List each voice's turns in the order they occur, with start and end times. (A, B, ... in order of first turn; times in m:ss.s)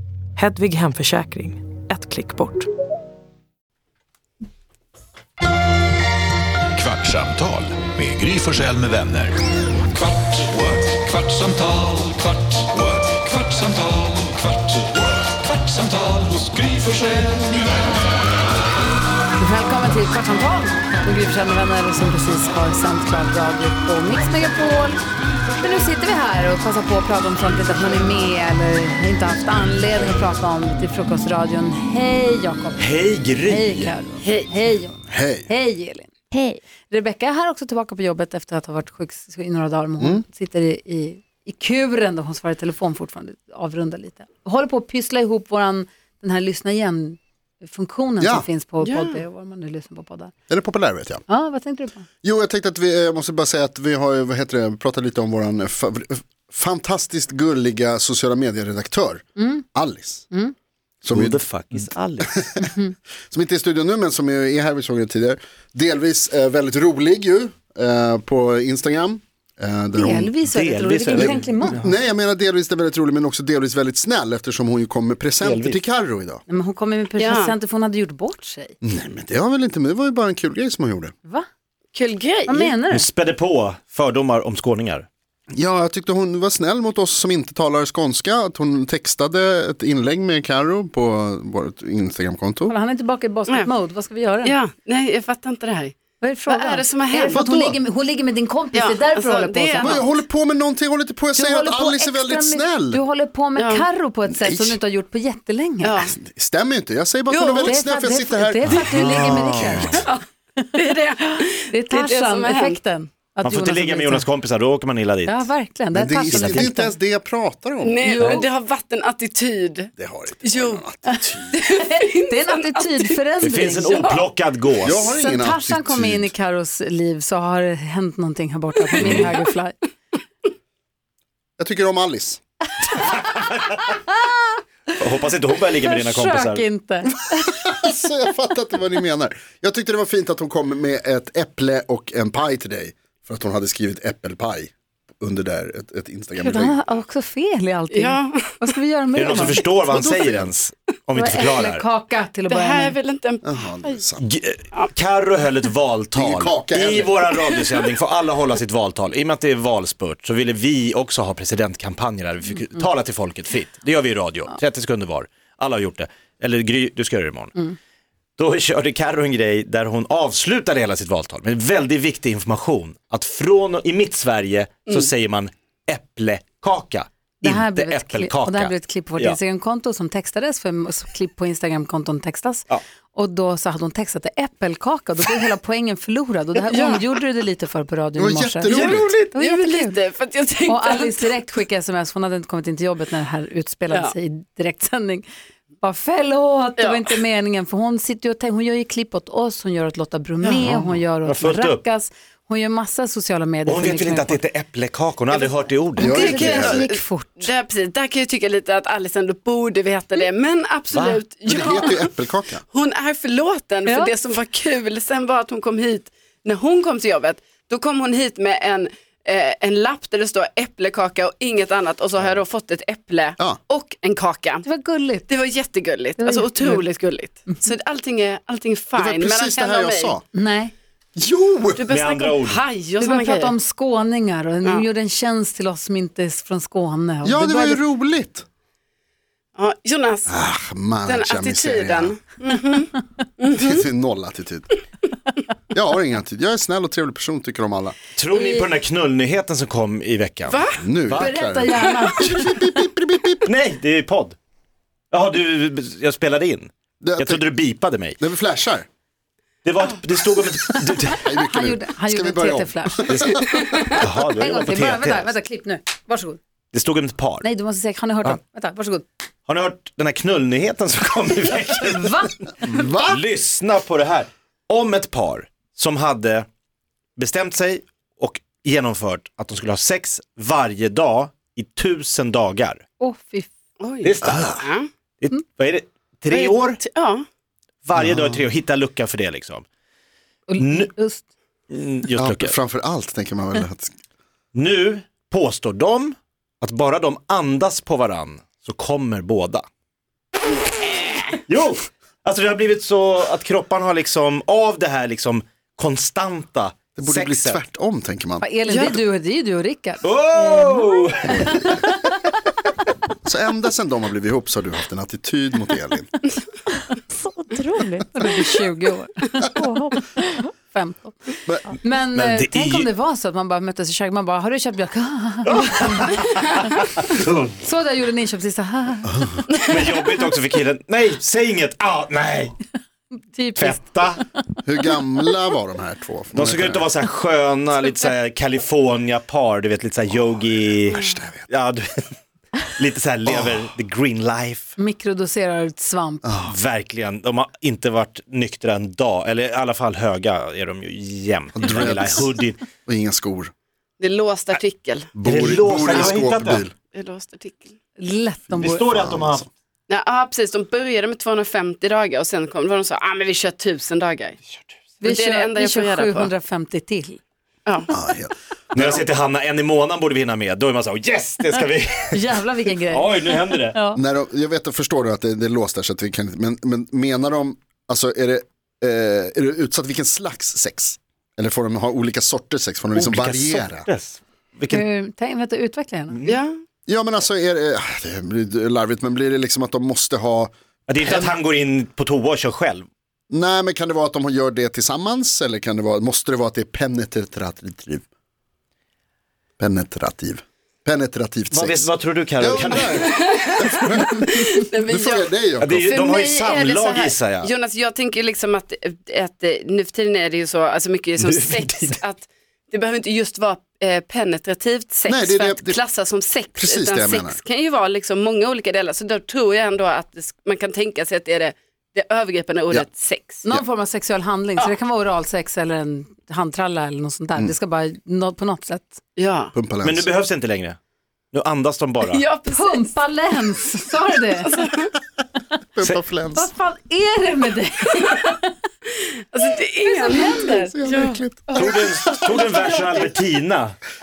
0:00.4-0:02.7 A
0:06.7-0:09.4 B
0:11.1-0:12.0 B
0:16.5-0:17.1 B
0:19.4-0:25.0 C
0:25.6-0:32.9 C
0:32.8-0:34.0 D
0:33.4-0:50.3 C
0:34.2-0:34.6 E
0:35.1-0:35.5 F
0:48.2-0:48.5 F
0:48.8-0:49.2 E
0:50.5-0:51.2 F
0:51.3-0:52.1 C
0:52.2-1:00.3 F
0:59.4-0:59.7 C
1:01.0-1:01.4 F
1:01.1-1:02.7 D
1:02.3-1:02.7 F
1:03.3-1:10.3 F
1:10.0-1:11.8 C
1:10.5-1:11.9 D
1:11.1-1:16.4 F
1:15.4-1:15.8 D
1:16.5-1:18.8 C
1:17.2-1:17.5 E
1:18.8-1:21.1 F
1:21.9-1:22.8 E
1:22.5-1:23.1 C
1:22.9-1:25.1 D
1:25.5-1:32.8 F
1:32.7-1:34.6 C
1:34.4-1:36.0 E
1:36.2-1:40.1 C
1:36.5-1:37.4 E
1:37.3-1:37.8 F
1:38.7-1:40.0 E
1:39.8-1:43.0 F
1:41.4-1:46.0 C
1:43.6-1:43.9 E
1:44.3-1:44.8 F
1:45.8-1:46.1 E
1:46.1-1:50.1 F
1:47.3-1:47.7 E
1:47.6-1:50.1 C
1:48.9-1:49.3 E
1:49.4-1:50.0 D
1:50.6-1:54.3 C
1:50.8-1:52.8 E
1:53.4-1:55.5 D
1:55.3-1:57.0 C
1:55.9-1:58.4 F
1:56.3-1:56.7 D
1:57.8-1:59.9 E
1:58.0-1:58.5 C
2:00.0-2:01.6 F
2:00.4-2:00.8 E
2:01.1-2:04.2 C
2:01.6-2:03.2 E
2:03.4-2:05.1 D
2:04.8-2:06.3 F
2:05.0-2:09.8 C
2:09.0-2:09.3 D
2:09.0-2:09.3 F
2:11.6-2:12.4 F
2:13.0-2:13.8 D
2:13.0-2:14.4 C
2:15.0-2:16.6 D
2:15.7-2:17.7 C
2:17.4-2:26.8 F
2:26.4-2:30.3 C
2:27.9-2:28.6 E
2:29.2-2:31.8 D
2:31.2-2:33.0 C
2:32.5-2:34.0 E
2:33.4-2:34.2 F
2:34.2-2:47.6 D
2:36.2-2:37.3 F
2:48.4-2:59.4 D
2:57.4-3:10.0 C
3:06.6-3:07.2 E
3:08.2-3:09.2 F
3:08.7-3:11.3 E
3:10.7-3:15.3 C
3:15.8-3:24.4 C
3:16.8-3:17.2 E
3:20.4-3:20.7 E
3:20.6-3:21.8 D
3:23.7-3:26.6 D
3:25.3-3:32.1 E
3:26.0-3:26.9 F
3:26.0-3:27.5 C
3:30.9-3:31.2 D
3:31.5-3:32.6 F
3:32.7-3:44.6 E
3:33.9-3:34.1 C
3:44.6-3:45.3 C
3:45.3-3:50.2 E
3:46.2-3:46.9 C
3:49.0-3:50.2 F
3:50.3-3:50.7 C
3:51.2-3:51.8 F
3:51.8-3:53.5 E
3:51.9-3:52.6 D
3:53.0-3:57.8 C
3:57.2-3:58.5 F
3:59.6-4:00.3 E
4:00.3-4:02.2 F
4:01.1-4:03.8 E
4:03.5-4:04.7 F
4:05.7-4:08.0 F
4:08.2-4:11.3 D
4:08.3-4:08.7 C
4:10.5-4:10.8 E
4:10.8-4:13.5 F
4:11.2-4:12.6 C
4:13.5-4:14.4 D
4:15.1-4:18.2 D
4:17.0-4:17.4 F
4:18.2-4:18.9 F
4:19.6-4:21.3 D
4:21.1-4:23.5 F
4:21.4-4:26.4 C
4:23.1-4:25.3 D
4:23.4-4:23.9 E
4:26.7-4:27.5 D
4:27.4-4:29.1 C
4:29.5-4:36.5 D
4:31.9-4:32.7 C
4:32.7-4:33.2 F
4:37.2-4:42.8 D
4:43.0-4:43.5 C
4:43.8-4:44.9 E
4:44.0-4:44.7 D
4:44.2-4:44.6 F
4:45.2-4:46.8 D
4:46.3-4:47.2 E
4:47.8-4:49.6 D
4:48.0-4:48.4 F
4:50.5-4:51.3 C
4:50.6-4:50.9 D
4:51.7-4:52.6 D
4:52.2-4:53.9 F
4:54.5-4:59.6 D
5:01.5-5:07.6 D
5:07.0-5:08.5 F
5:08.4-5:12.2 C
5:08.7-5:09.0 E
5:10.0-5:11.6 D
5:11.3-5:11.8 F
5:13.2-5:16.1 F
5:17.1-5:26.6 C
5:21.5-5:21.8 F
5:22.1-5:22.9 D
5:25.5-5:27.5 D
5:27.6-5:29.7 C
5:29.6-5:32.6 D
5:33.1-5:34.3 C
5:33.6-5:34.2 D
5:34.6-5:36.9 F
5:36.3-5:44.8 D
5:40.9-5:41.5 F
5:43.3-5:43.6 F
5:44.8-5:46.3 C
5:46.2-5:46.5 F
5:46.4-5:52.6 D
5:51.6-5:52.3 F
5:52.9-5:53.5 F
5:54.0-5:55.1 E
5:55.2-5:56.8 F
5:55.2-5:56.7 D
5:56.9-5:57.8 E
5:58.0-5:58.8 C
5:58.5-5:59.5 F
5:58.6-5:59.5 D
5:59.9-6:04.4 E
6:05.0-6:07.2 C
6:05.0-6:06.3 E
6:07.7-6:07.9 E
6:07.9-6:09.0 F
6:08.7-6:13.8 D
6:12.1-6:14.0 C
6:13.9-6:23.9 F
6:23.0-6:24.8 D
6:24.7-6:26.2 C
6:26.1-6:26.4 D
6:26.2-6:26.6 E
6:26.9-6:31.4 F
6:30.9-6:32.9 D
6:33.3-6:38.0 F
6:39.6-6:45.9 F
6:41.5-6:43.1 D
6:42.9-7:03.5 E
6:45.6-6:47.5 D
6:51.2-6:52.0 D
6:55.1-6:55.8 F
6:56.6-6:57.4 F
7:03.4-7:09.0 C
7:09.2-7:09.5 E
7:09.5-7:10.1 F
7:09.8-7:10.8 D
7:11.3-7:12.2 D
7:12.0-7:13.0 E
7:12.5-7:14.5 C
7:14.4-7:14.9 E
7:15.8-7:16.5 F
7:16.3-7:18.5 C
7:17.9-7:18.3 E
7:18.9-7:21.6 E
7:19.8-7:20.9 C
7:20.5-7:21.8 F
7:21.5-7:23.0 C
7:21.5-7:23.8 D
7:22.3-7:22.8 E